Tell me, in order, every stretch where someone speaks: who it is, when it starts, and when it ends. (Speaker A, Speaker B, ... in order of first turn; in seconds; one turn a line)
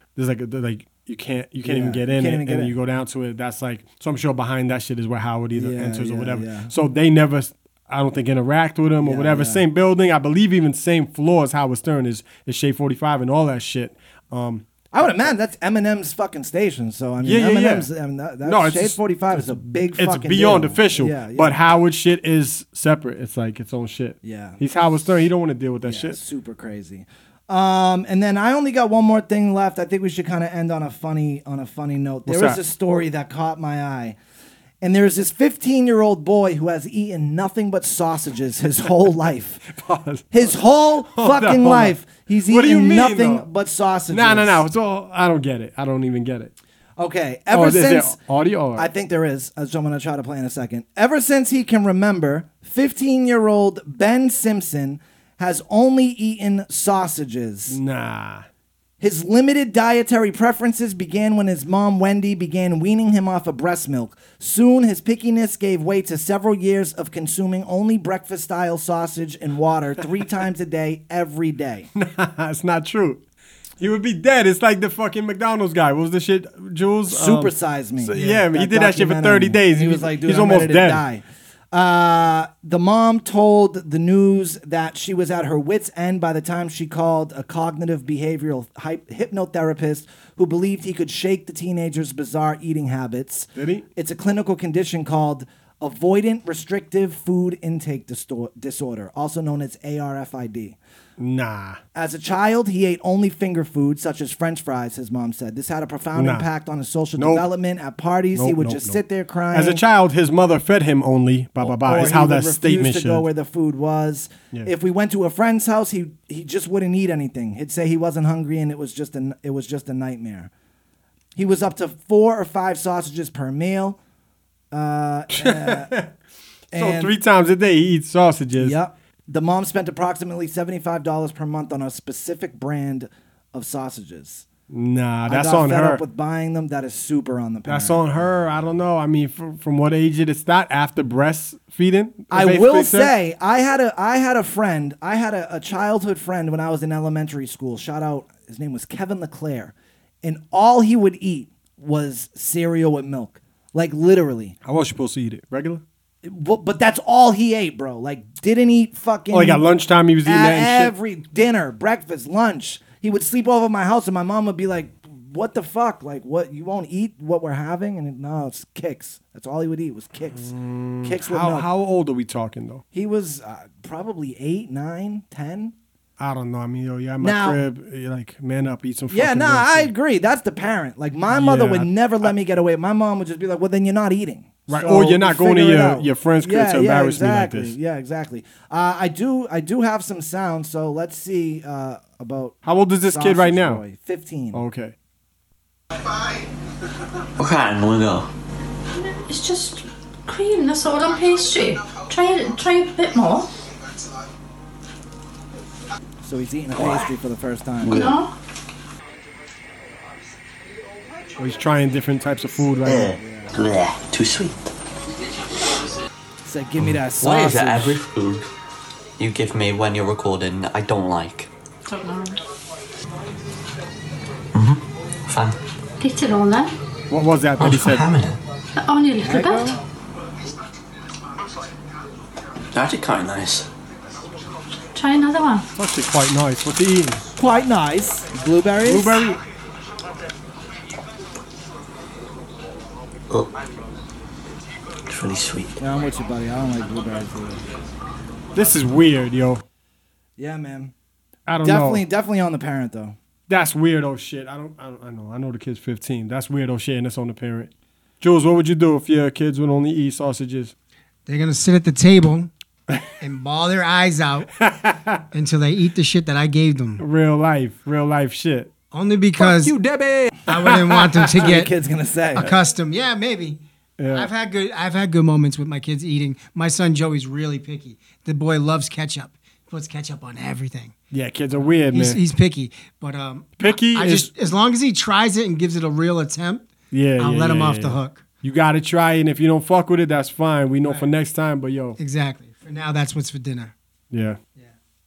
Speaker A: 0.1-15.3
Speaker B: 1.6-2.7
Speaker B: 5.5-6.7
Speaker B: 9.0-9.6
Speaker B: 14.9-21.6
Speaker A: 17.2-17.9
Speaker A: 18.4-26.2
Speaker B: 24.2-24.6
Speaker B: 25.8-34.2
Speaker A: 32.3-32.6
Speaker B: 34.8-39.6
Speaker A: 39.7-40.5
Speaker B: 40.3-44.6
Speaker A: 41.1-42.0
Speaker A: 42.5-43.5
Speaker A: 44.1-46.5
Speaker B: 47.0-48.2
Speaker A: 47.5-48.9
Speaker B: 48.8-57.8
Speaker A: 57.7-58.5
Speaker B: 59.0-71.9
Speaker A: 72.0-73.2
Speaker A: 73.8-81.0
Speaker B: 77.1-100.8
Speaker A: 93.5-93.8
Speaker A: 101.2-101.8
Speaker B: 101.9-109.8
Speaker A: 106.1-106.5
Speaker A: 107.2-107.5
Speaker A: 108.3-109.0
Speaker A: 109.5-113.3
Speaker B: 111.6-120.5
Speaker B: 121.3-124.0
Speaker B: 124.7-125.9
Speaker A: 125.3-126.1
Speaker B: 126.7-127.1
Speaker A: 126.7-128.8
Speaker B: 128.6-134.5
Speaker A: 134.7-136.0
Speaker B: 135.3-138.0
Speaker A: 137.6-143.1
Speaker B: 142.3-154.6
Speaker A: 154.6-155.8
Speaker B: 156.2-159.7
Speaker A: 159.3-160.9
Speaker B: 160.2-171.7
Speaker A: 170.3-172.8
Speaker B: 172.9-175.7
Speaker A: 176.2-179.9
Speaker B: 177.2-177.6
Speaker B: 179.1-194.6
Speaker A: 181.3-182.3
Speaker A: 184.7-187.8
Speaker A: 192.6-193.8
Speaker A: 194.5-194.9
Speaker C: 197.4-198.3
Speaker D: 198.9-203.5
Speaker B: 206.2-207.9
Speaker C: 206.7-207.1
Speaker C: 207.8-208.2
Speaker D: 207.9-208.3
Speaker A: 211.4-213.1
Speaker C: 212.8-214.6
Speaker B: 213.0-213.5
Speaker B: 216.4-217.9
Speaker C: 216.8-218.5
Speaker C: 219.2-221.5
Speaker D: 221.8-222.4
Speaker C: 224.5-225.6
Speaker D: 226.0-226.8
Speaker A: 227.1-228.1
Speaker C: 227.6-228.4
Speaker D: 228.8-229.8
Speaker B: 229.2-229.7
Speaker C: 232.7-233.7
Speaker D: 234.9-235.7
Speaker A: 235.8-237.2
Speaker B: 237.4-239.2
Speaker A: 238.8-239.4
Speaker C: 245.1-245.7
Speaker B: 245.8-247.6
Speaker A: 248.5-249.6
Speaker B: 250.4-250.9
Speaker A: 251.5-252.0
Speaker B: 251.6-253.2
Speaker A: 253.5-257.7
Speaker A: 258.2-260.7
Speaker E: 261.2-262.5
Speaker E: 263.2-264.5
Speaker A: 264.6-265.2
Speaker E: 265.3-267.0
Speaker A: 267.0-268.7
Speaker E: 268.9-269.8
Speaker A: 269.4-271.5
Speaker E: 270.5-271.7
Speaker B: 271.4-272.5
Speaker E: 272.4-273.6
Speaker A: 274.0-274.3
Speaker E: 274.1-280.9
Speaker A: 281.1-282.2
Speaker E: 281.9-288.2
Speaker A: 283.6-284.3
Speaker A: 286.9-292.0
Speaker E: 292.0-293.7
Speaker A: 294.1-294.4